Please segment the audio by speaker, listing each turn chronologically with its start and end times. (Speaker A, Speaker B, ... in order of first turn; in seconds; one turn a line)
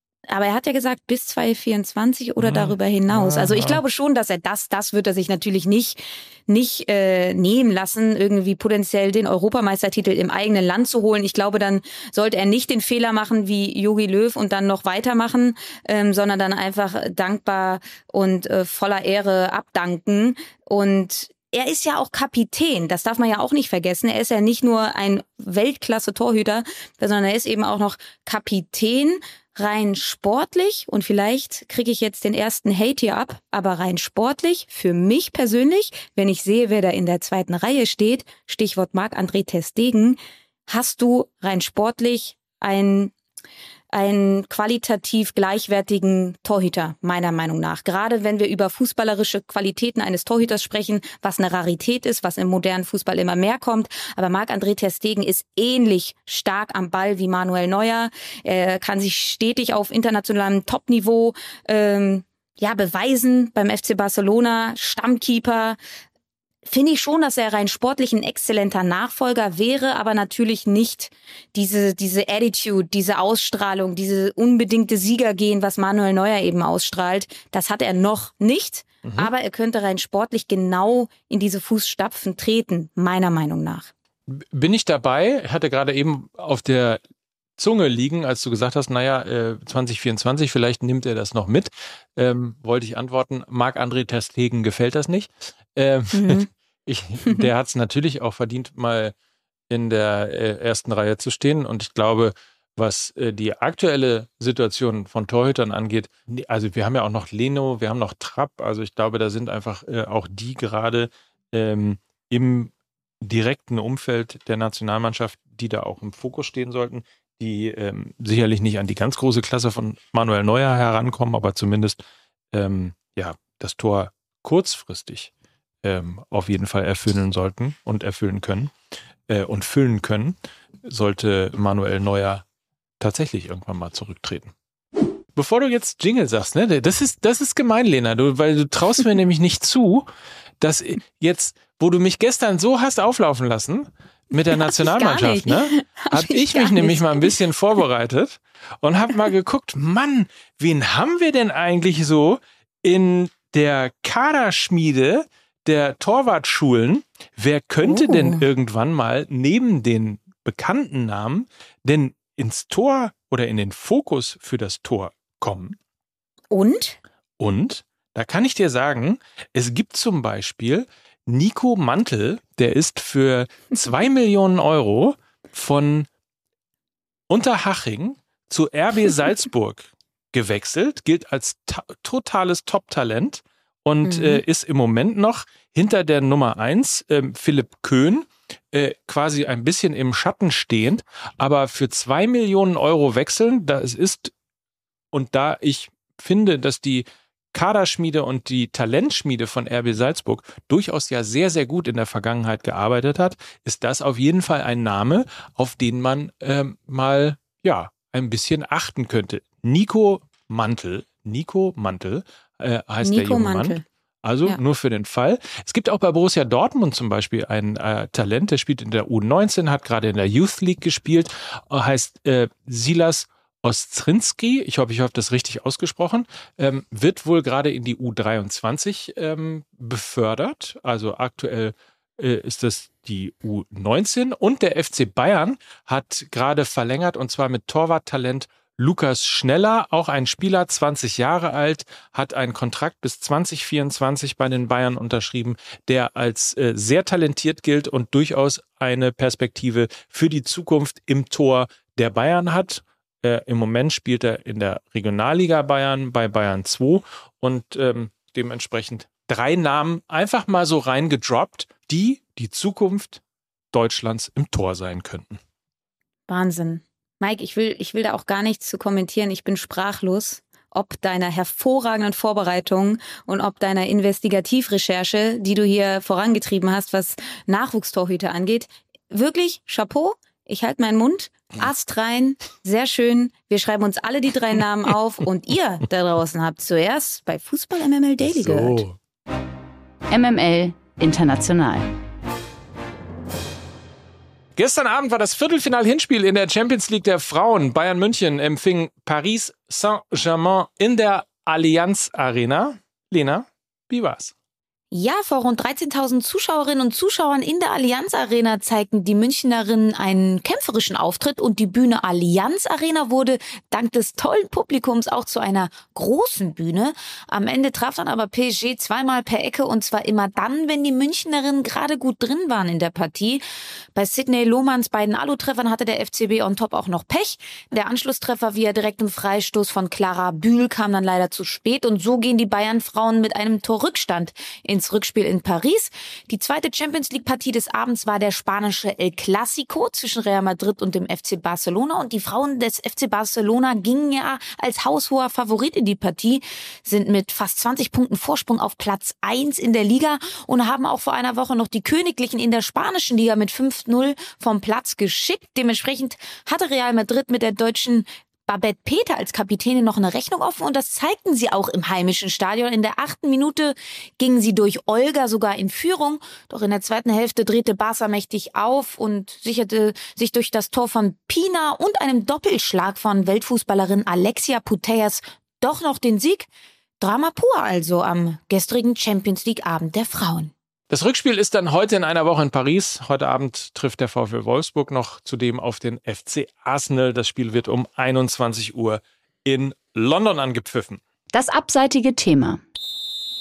Speaker A: 0.3-43.1
Speaker B: 2.4-3.8
Speaker A: 43.9-65.8
Speaker A: 66.6-83.9
Speaker B: 79.0-79.3
Speaker B: 84.3-87.0
Speaker B: 87.6-99.1
Speaker A: 96.1-96.5
Speaker B: 99.7-122.0
Speaker B: 122.5-125.3
Speaker B: 125.8-128.7
Speaker B: 129.3-132.4
Speaker B: 133.0-134.5
Speaker B: 135.3-140.1
Speaker B: 140.6-165.8
Speaker A: 144.6-147.3
Speaker A: 157.8-158.4
Speaker A: 166.5-167.0
Speaker B: 167.4-176.1
Speaker B: 177.3-194.3
Speaker A: 184.2-184.4
Speaker B: 195.1-263.2
Speaker A: 213.0-213.8
Speaker B: 263.7-265.4
Speaker A: 266.3-288.8
Speaker B: 288.2-289.0
Speaker C: 290.1-291.9
Speaker B: 294.6-304.3
Speaker A: 304.9-323.4
Speaker A: 323.9-376.5
Speaker A: 377.0-380.5
Speaker B: 380.9-391.0
Speaker C: 391.3-392.6